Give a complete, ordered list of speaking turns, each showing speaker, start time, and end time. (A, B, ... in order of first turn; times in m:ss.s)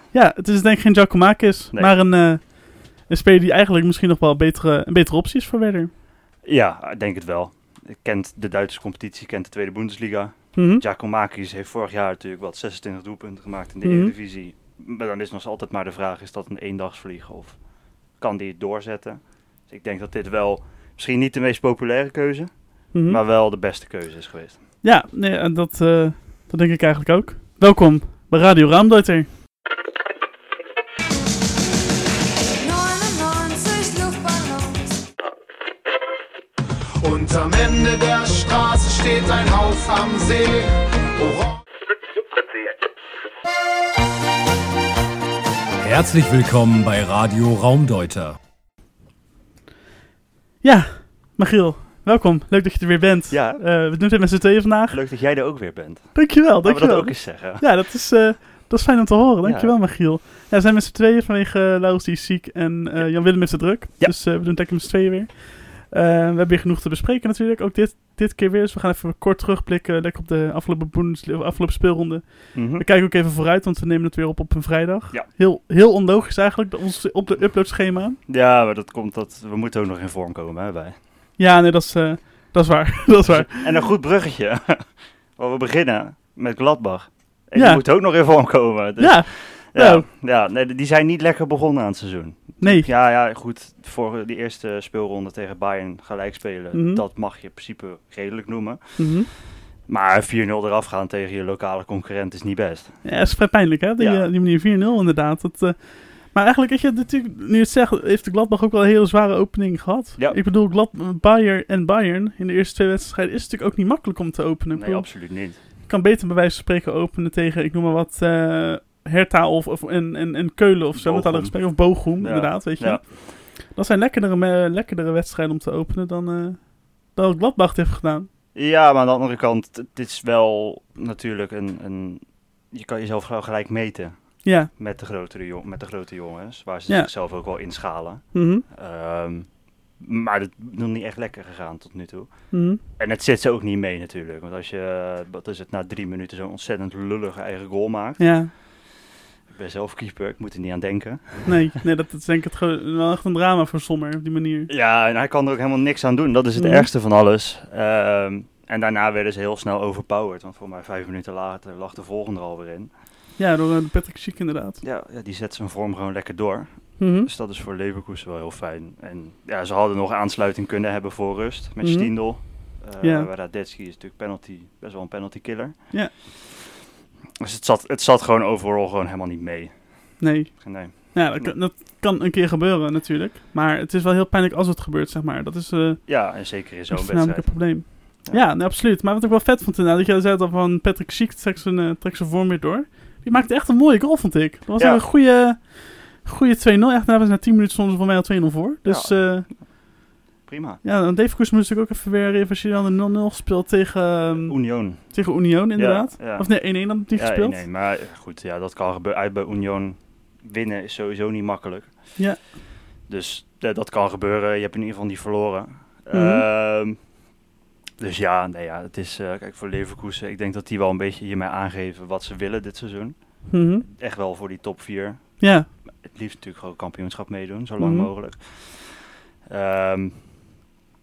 0:00.1-0:05.9 A
0:06.4-0:24.6 B
0:10.5-0:10.8 A
0:13.8-0:14.1 A
0:22.9-0:23.2 A
0:24.8-0:29.3 A
0:32.6-0:35.1 C
0:37.0-0:41.6 D
0:45.8-0:48.4 E
0:50.6-0:55.0 A
0:53.3-0:53.6 B
0:54.9-0:57.6 B
0:56.1-1:18.2 A
0:59.4-0:59.7 B
1:12.5-1:12.8 B
1:18.3-1:21.0 B
1:21.4-1:23.8 A
1:23.2-1:39.2 B
1:27.6-1:27.8 A
1:29.0-1:30.0 A
1:32.6-1:32.9 A
1:36.7-1:37.0 A
1:39.0-1:39.3 A
1:39.8-1:43.1 B
1:43.0-2:08.3 A
1:44.0-1:44.3 B
1:54.8-1:55.6 B
2:00.9-2:03.1 B
2:08.5-2:28.7 B
2:14.4-2:14.7 A
2:18.3-2:18.6 A
2:22.5-2:22.8 A
2:28.2-2:28.5 A
2:29.5-2:31.7 B
2:31.4-2:34.7 A
2:34.7-2:42.9 B
2:36.6-2:36.9 A
2:43.4-2:44.8 A
2:44.8-2:56.2 B
2:47.0-2:47.3 A
2:51.8-2:53.3 A
2:57.4-3:01.5 B
3:00.2-3:19.5 A
3:06.0-3:08.4 B
3:14.8-3:15.0 B
3:18.8-3:19.6 B
3:20.4-3:20.8 B
3:20.8-3:27.6 A
3:24.4-3:32.2 B
3:32.2-3:32.4 A
3:33.0-3:37.1 B
3:36.1-3:36.4 A
3:38.0-3:50.4 B
3:43.5-3:43.8 A
3:45.4-3:45.7 A
3:47.8-3:48.1 A